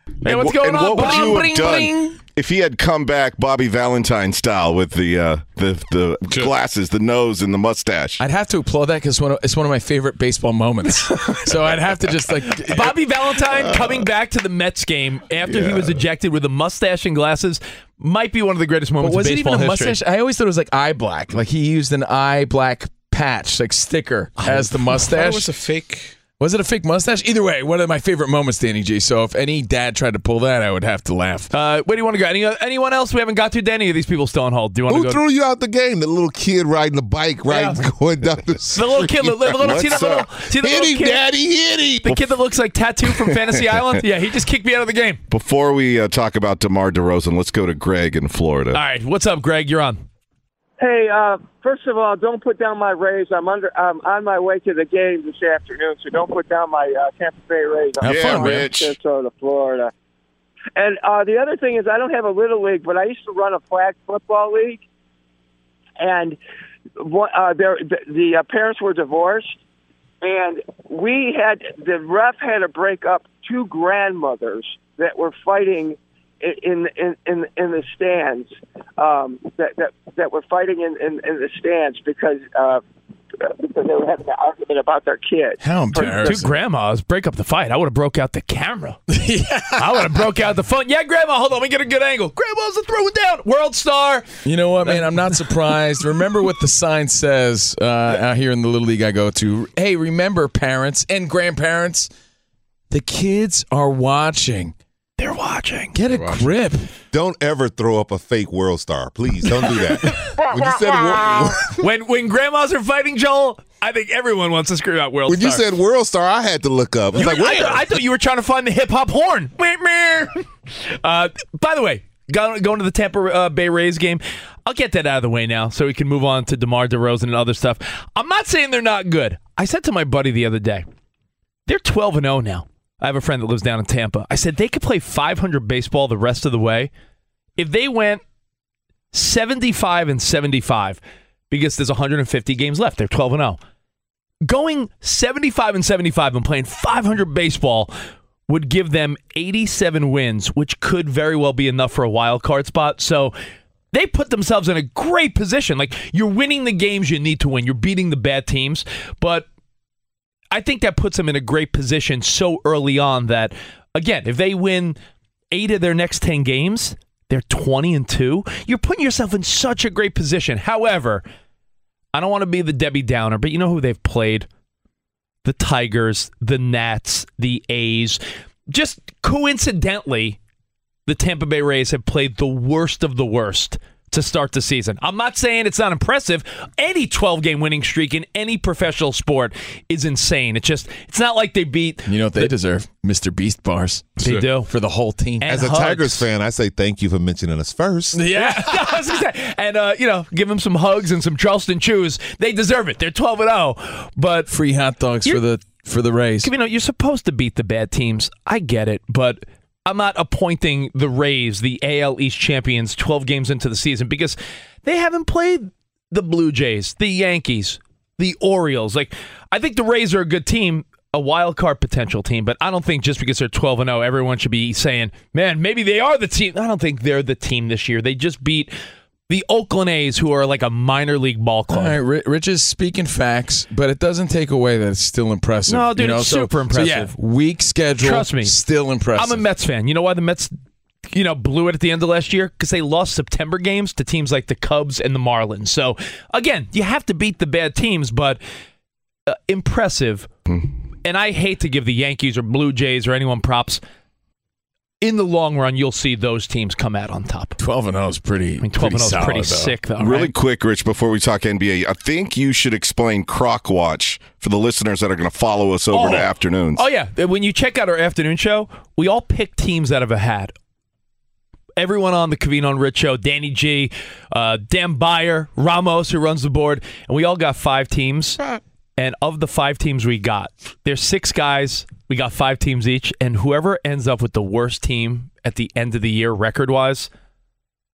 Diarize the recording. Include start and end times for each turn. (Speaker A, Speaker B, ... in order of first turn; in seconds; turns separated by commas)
Speaker A: 0.2-8.2, Speaker B: 0.2-2.1, Speaker C: 8.2-12.9, Speaker B: 12.7-20.0, Speaker A: 15.4-16.0, Speaker C: 19.0-25.5, Speaker D: 24.5-26.1, Speaker C: 26.4-31.5, Speaker B: 31.5-35.2, Speaker E: 34.9-42.2, Speaker B: 37.5-37.8, Speaker B: 38.7-41.2, Speaker A: 39.5-40.3, Speaker B: 42.0-45.2, Speaker A: 43.2-44.0, Speaker A: 45.3-48.8, Speaker B: 48.7-50.0, Speaker F: 50.8-59.9, Speaker C: 58.0-58.7, Speaker A: 58.0-58.9, Speaker F: 60.8-64.8, Speaker F: 66.0-66.4, Speaker F: 67.0-69.6, Speaker F: 70.2-82.8, Speaker F: 83.4-86.4, Speaker C: 85.6-86.5, Speaker B: 86.0-89.0, Speaker C: 89.1-90.2, Speaker B: 89.8-94.3, Speaker C: 94.5-102.1, Speaker B: 94.8-95.5, Speaker C: 102.9-104.7, Speaker B: 105.2-106.0, Speaker C: 105.9-106.9, Speaker D: 106.1-106.5, Speaker E: 107.1-111.7, Speaker B: 111.8-115.6, Speaker E: 115.3-117.9, Speaker B: 117.2-130.8, Speaker B: 131.7-136.9, Speaker B: 137.6-138.2, Speaker B: 139.1-143.6, Speaker B: 144.4-147.9, Speaker B: 148.5-153.3, Speaker B: 153.9-159.5, Speaker B: 160.5-165.0, Speaker B: 165.5-171.2, Speaker B: 172.1-174.5, Speaker B: 175.4-180.4, Speaker B: 181.1-192.5, Speaker C: 192.1-195.5, Speaker B: 194.2-194.7, Speaker B: 195.4-196.3, Speaker E: 195.5-198.2, Speaker C: 198.1-198.9, Speaker B: 198.3-204.5, Speaker C: 204.5-206.5, Speaker B: 206.4-228.7, Speaker B: 229.3-232.0, Speaker C: 231.7-239.4, Speaker B: 235.7-237.1, Speaker B: 238.0-238.6, Speaker B: 239.2-240.6, Speaker B: 241.1-248.4, Speaker B: 249.3-250.3, Speaker B: 251.0-253.8, Speaker B: 255.0-257.6, Speaker C: 257.6-259.8, Speaker B: 258.6-260.3, Speaker A: 260.0-266.8, Speaker B: 265.9-270.5, Speaker B: 271.8-278.4, Speaker B: 279.0-287.1